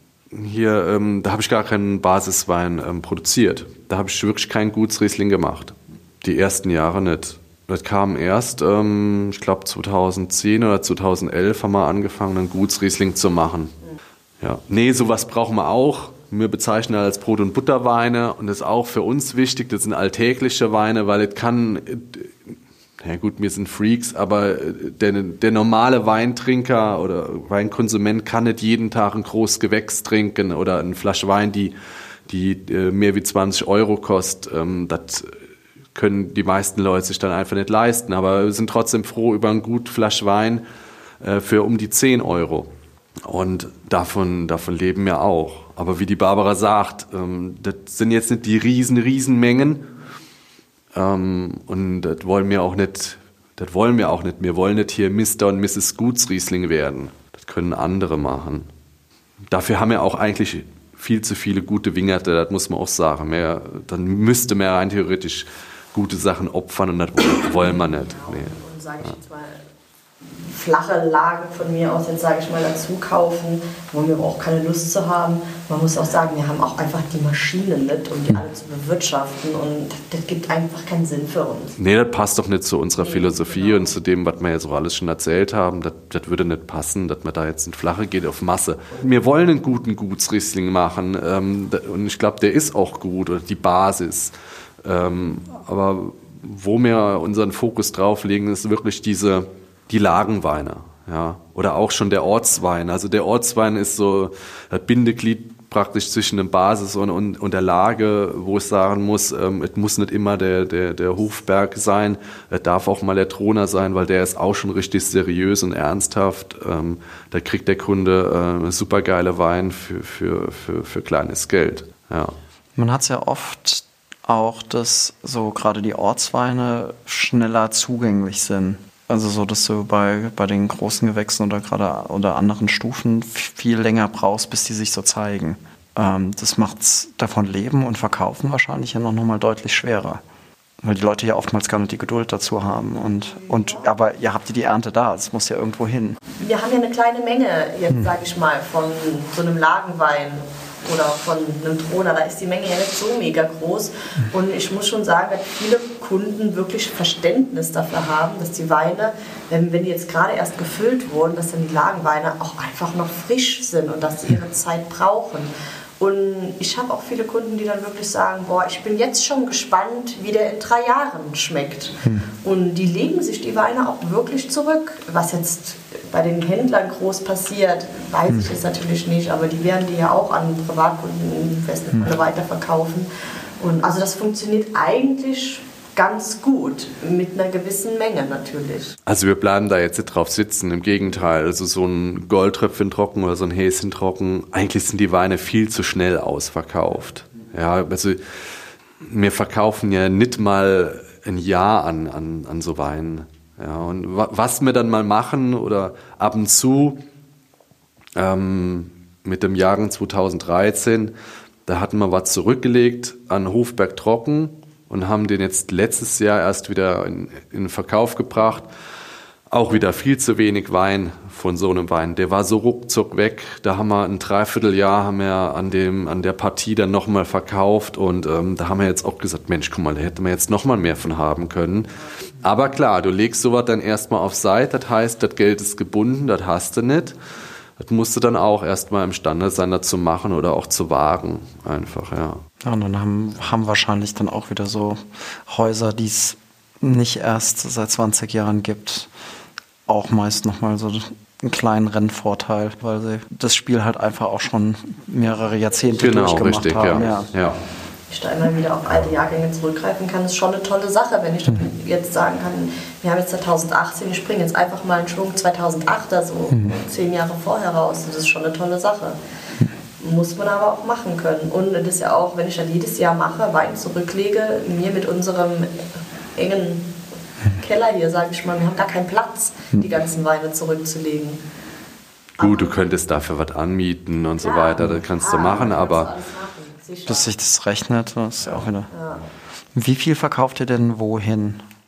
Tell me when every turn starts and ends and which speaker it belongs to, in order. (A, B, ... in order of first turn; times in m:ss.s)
0:00.3-0:13.7 A
0:14.4-0:31.7 A
0:32.3-0:35.4 A
0:35.9-0:40.6 A
0:41.2-0:42.7 A
0:43.2-0:49.8 A
0:50.9-0:58.7 A
0:59.5-1:09.2 A
1:07.5-1:09.6 B
1:10.2-1:21.7 B
1:21.8-2:02.4 A
1:23.0-1:23.9 B
2:02.8-2:20.2 C
2:20.8-2:26.2 C
2:26.4-3:08.9 B
3:09.0-3:27.0 A
3:28.2-3:31.1 A
3:31.7-3:38.7 A
3:39.5-3:57.2 A
3:57.8-4:02.4 A
4:02.6-4:09.1 C
4:09.9-4:17.3 C
4:16.0-4:17.6 A
4:18.1-4:29.2 B
4:26.5-4:26.8 C
4:30.0-4:35.8 B
4:36.4-4:36.9 B
4:37.5-4:41.4 B
4:42.4-4:42.8 B
4:42.4-4:46.1 A
4:44.3-4:47.3 B
4:47.0-4:48.9 C
4:48.9-4:49.2 B
4:49.7-4:51.6 C